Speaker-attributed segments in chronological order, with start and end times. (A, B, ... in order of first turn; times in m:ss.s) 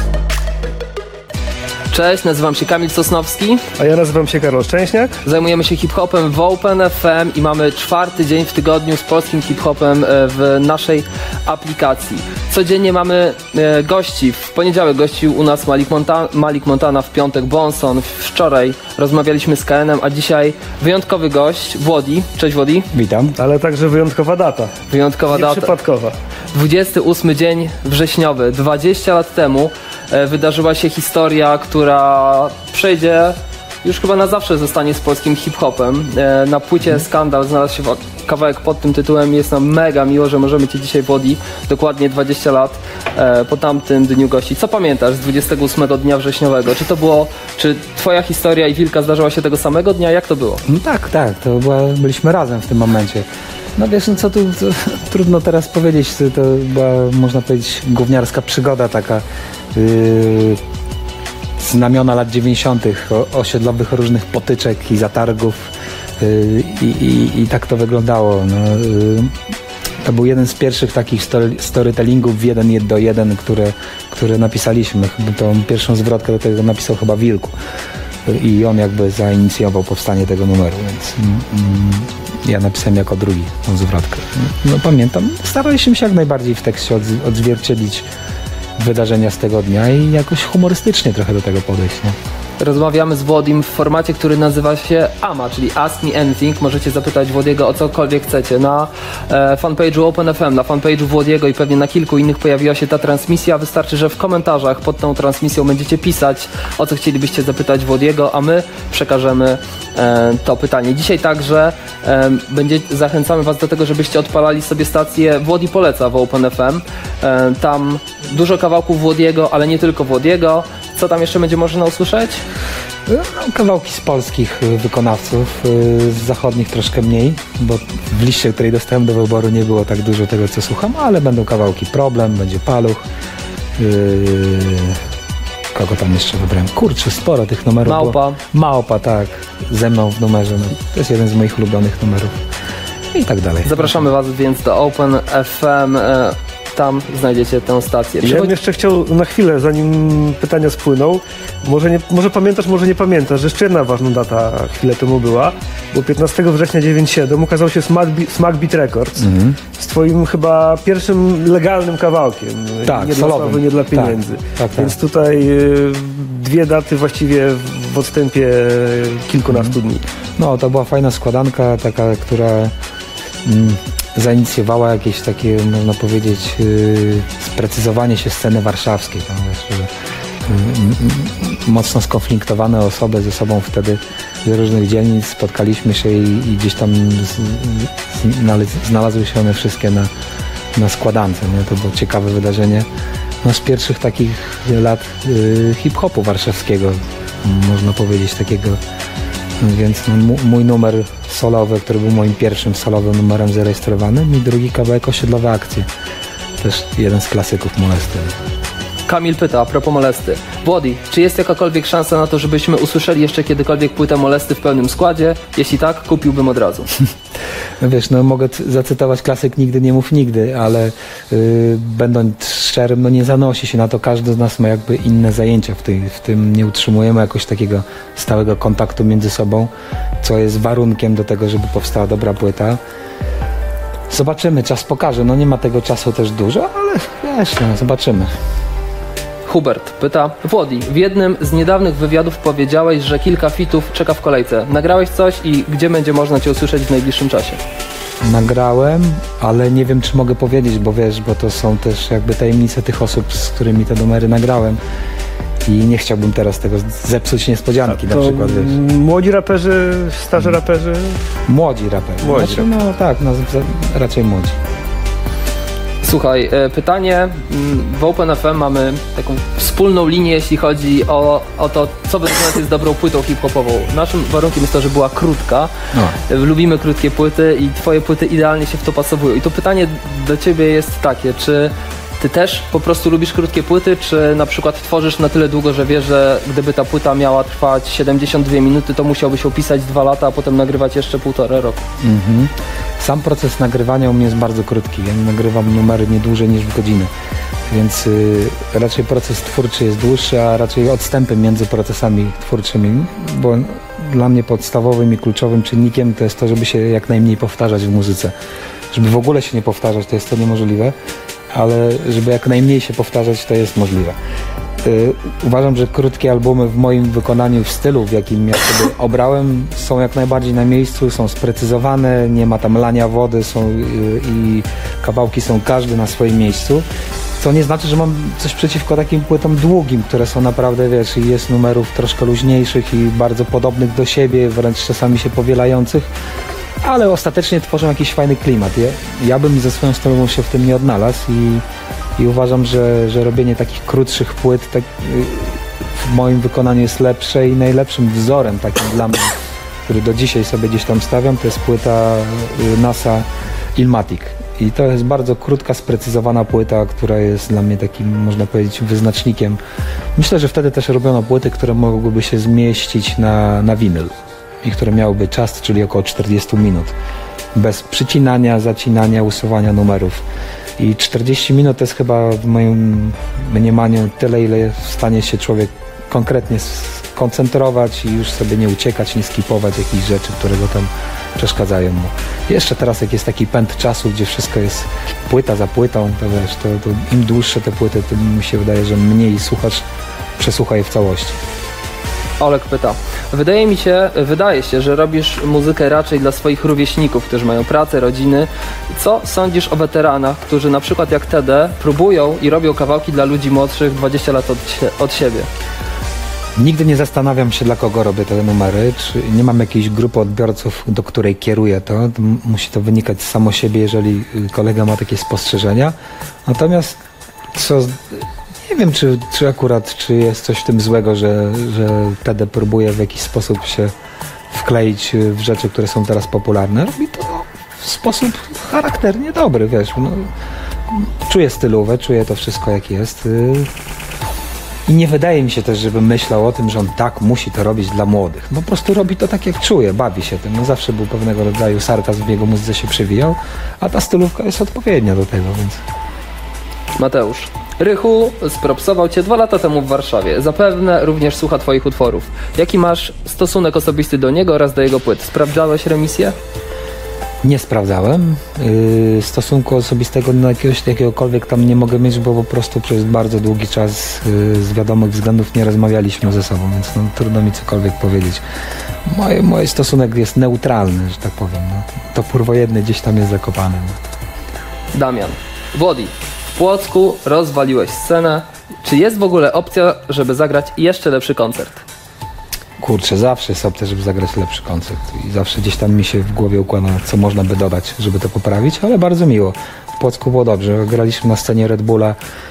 0:01.9-0:03.6 A
0:03.8-0:05.2 B
0:05.2-0:22.9 A
0:22.9-0:23.4 C
0:23.4-0:24.8 B
0:24.9-0:25.8 A
0:25.3-0:26.2 B
0:26.5-0:50.6 A
0:50.7-1:00.6 C
1:01.6-1:09.4 C
1:10.0-1:17.6 C
1:18.3-1:28.1 C
1:28.8-1:32.2 C
1:32.6-2:02.4 A
2:03.1-2:13.0 C
2:13.8-2:15.0 C
2:15.7-2:22.4 C
2:17.9-2:18.4 A
2:23.1-2:23.9 C
2:23.6-2:28.5 A
2:28.2-2:50.0 B
2:39.2-2:39.6 C
2:42.8-2:45.0 C
2:49.5-2:49.8 C
2:50.4-2:52.7 C
2:53.4-2:59.9 C
3:00.4-3:10.1 C
3:10.8-3:12.9 C
3:13.4-3:18.8 C
3:19.6-3:25.9 C
3:26.6-3:28.4 C
3:29.1-3:36.9 A
3:37.8-3:49.7 C
3:50.2-3:52.8 C
3:54.1-3:58.3 C
3:59.5-4:07.6 A
4:08.2-4:14.8 C
4:15.6-4:18.8 C
4:17.9-4:21.2 B
4:21.5-4:24.6 C
4:22.2-4:22.7 B
4:26.0-4:35.7 A
4:36.3-4:51.8 A
4:52.0-4:57.1 C
4:57.7-5:08.3 C
5:08.9-5:11.0 C
5:11.5-5:14.2 C
5:14.8-5:26.9 C
5:27.4-5:36.1 C
5:36.8-5:41.6 C
5:42.2-5:49.4 C
5:49.9-5:59.6 C
6:00.2-6:06.9 C
6:07.5-6:10.2 C
6:10.8-6:29.8 C
6:30.4-6:31.4 C
6:32.4-6:45.5 A
6:46.6-6:56.0 C
6:56.5-6:57.0 C
6:57.5-7:03.9 C
7:04.5-7:10.3 C
7:10.9-7:13.7 C
7:14.9-7:25.8 C
7:27.0-7:36.4 A
7:37.4-7:48.4 C
7:49.1-7:54.0 C
7:54.9-8:01.8 A
8:02.8-8:12.2 C